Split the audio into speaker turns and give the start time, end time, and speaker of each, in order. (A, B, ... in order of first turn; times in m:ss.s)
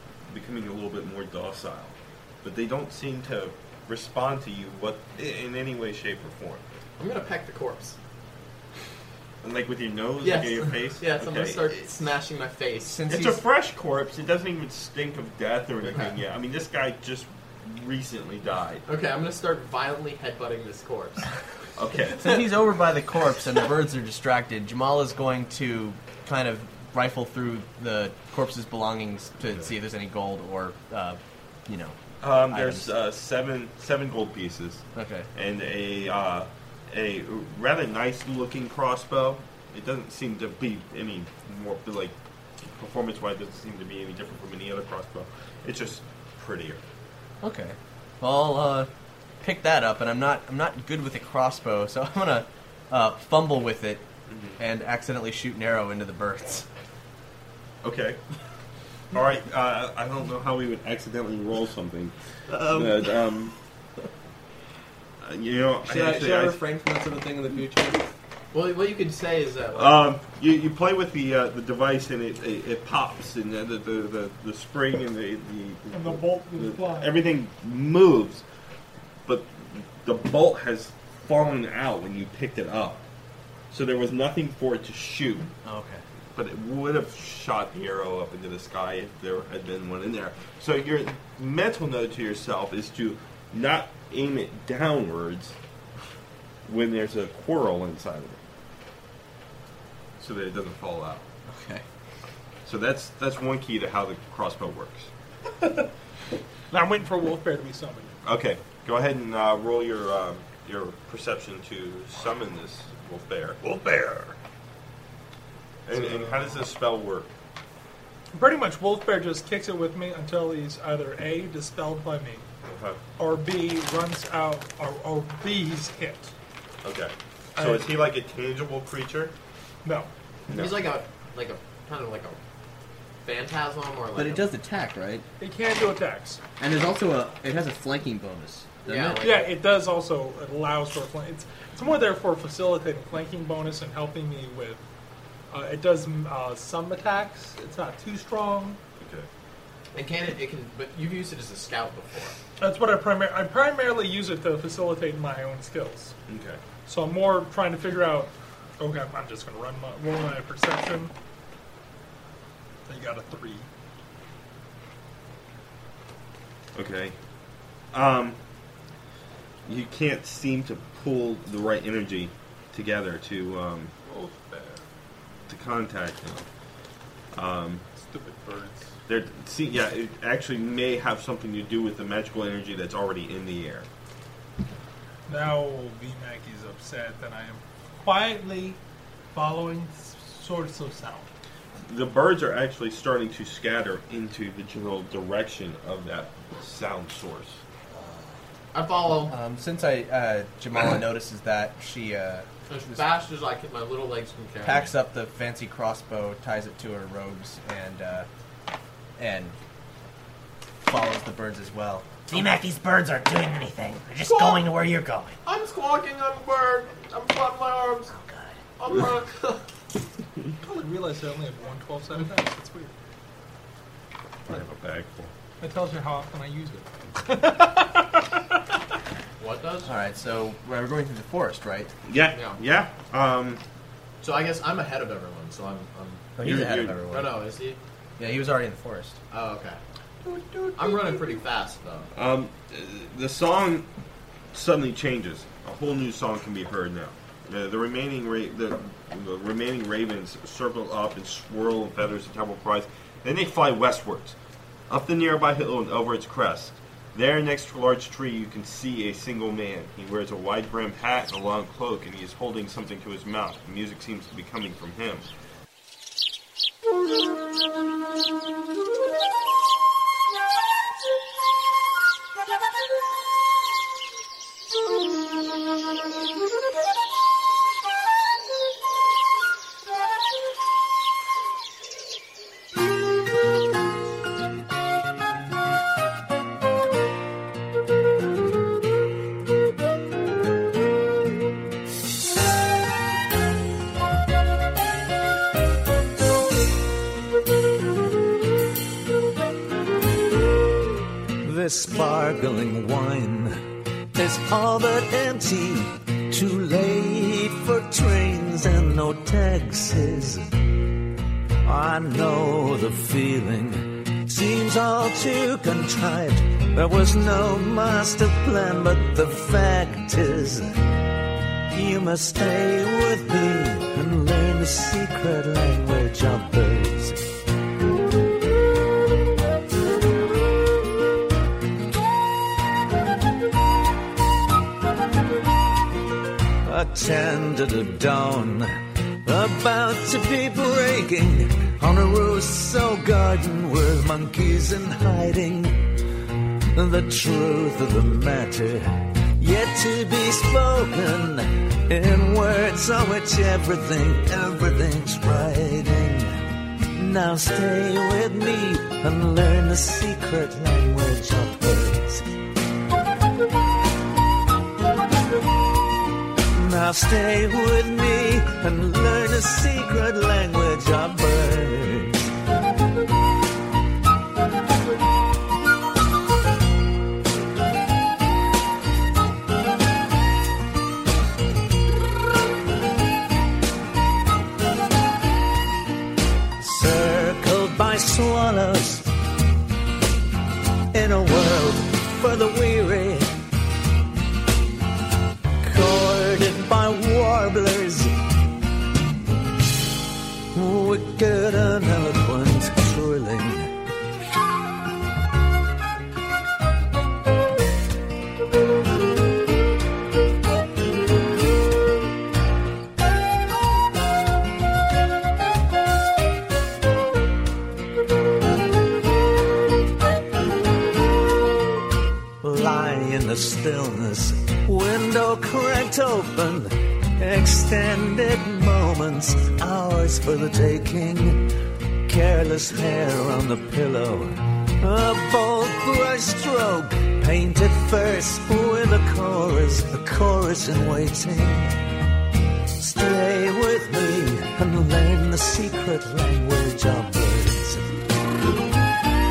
0:00.3-0:06.6 A
0:07.0-0:08.0 B
0:09.4-0:11.9 A
0:10.2-0:13.0 B
0:12.8-0:13.4 C
0:13.0-0:18.8 A
0:15.8-0:16.1 B
0:18.9-0:21.3 B
0:21.8-0:22.3 A
0:22.2-0:32.9 C
0:32.2-0:42.2 A
0:35.0-0:35.3 C
0:42.8-0:46.8 A
0:47.4-0:48.9 C
0:49.4-0:54.0 C
0:54.3-0:54.6 A
0:54.6-0:56.7 C
0:57.8-0:58.2 A
0:59.1-1:03.5 A
1:02.5-1:03.1 C
1:05.2-1:06.6 A
1:05.8-1:08.0 C
1:08.5-1:10.0 B
1:09.7-1:18.4 A
1:15.9-1:17.1 D
1:19.3-1:23.0 A
1:23.7-1:25.5 A
1:25.6-1:26.0 C
1:26.4-1:35.6 A
1:36.6-1:38.4 A
1:40.2-1:41.2 A
1:41.5-1:41.8 C
1:42.6-1:45.1 A
1:46.7-1:48.2 D
1:48.2-1:53.6 A
1:53.6-1:54.4 D
1:55.9-1:57.3 A
1:55.9-1:56.4 D
1:58.3-2:02.5 D
2:02.6-2:03.0 A
2:03.2-2:06.3 D
2:06.8-2:09.3 A
2:07.6-2:07.9 D
2:10.5-2:10.9 A
2:10.5-2:12.4 B
2:13.2-2:14.5 B
2:14.2-2:15.2 C
2:15.4-2:16.4 D
2:16.6-2:19.3 C
2:18.9-2:19.5 B
2:19.2-2:24.8 D
2:25.5-2:28.8 D
2:29.0-2:29.3 A
2:29.9-2:32.4 B
2:32.6-2:36.2 D
2:36.3-2:36.6 A
2:36.9-2:41.1 D
2:42.9-2:43.7 D
2:46.8-2:47.2 A
2:47.9-2:48.4 A
2:49.7-2:53.9 A
2:54.1-2:54.8 D
2:55.5-2:56.5 A
2:57.3-2:57.8 A
2:58.0-2:58.9 D
2:59.1-3:03.9 A
3:05.3-3:08.8 D
3:09.3-3:11.3 D
3:11.9-3:17.6 A
3:18.7-3:19.3 B
3:19.3-3:23.1 C
3:22.7-3:25.0 B
3:24.6-3:28.3 C
3:29.2-3:29.6 C
3:30.8-3:32.2 C
3:32.3-3:35.4 E
3:34.2-3:34.7 B
3:35.4-3:38.1 B
3:38.1-3:38.6 E
3:38.8-3:39.6 B
3:40.6-3:42.9 D
3:44.5-3:45.3 A
3:45.6-3:48.3 D
3:49.4-3:49.9 B
3:49.8-3:51.9 C
3:52.1-3:53.6 A
3:52.3-3:52.6 B
3:54.2-3:56.4 B
3:56.4-3:57.4 C
3:56.4-3:57.0 A
3:57.1-3:57.8 B
3:58.2-3:59.2 C
3:59.3-3:59.8 B
4:00.3-4:00.8 A
4:00.8-4:02.1 B
4:02.1-4:03.9 A
4:04.5-4:14.4 A
4:14.9-4:25.3 A
5:01.4-5:03.5 F
5:04.2-5:10.4 F
5:11.7-5:20.6 F
5:21.7-5:27.2 F
5:36.6-5:38.7 F
5:39.3-5:45.8 F
5:46.8-5:48.8 F
5:49.4-5:56.2 F
5:57.0-6:02.2 F
6:06.5-6:12.2 F
6:26.6-6:29.1 F
6:30.9-6:33.3 F
6:35.6-6:38.1 F
6:40.6-6:43.7 F
7:02.4-7:11.4 F
7:12.1-7:14.3 F
7:14.8-7:21.8 F
7:22.8-7:27.8 F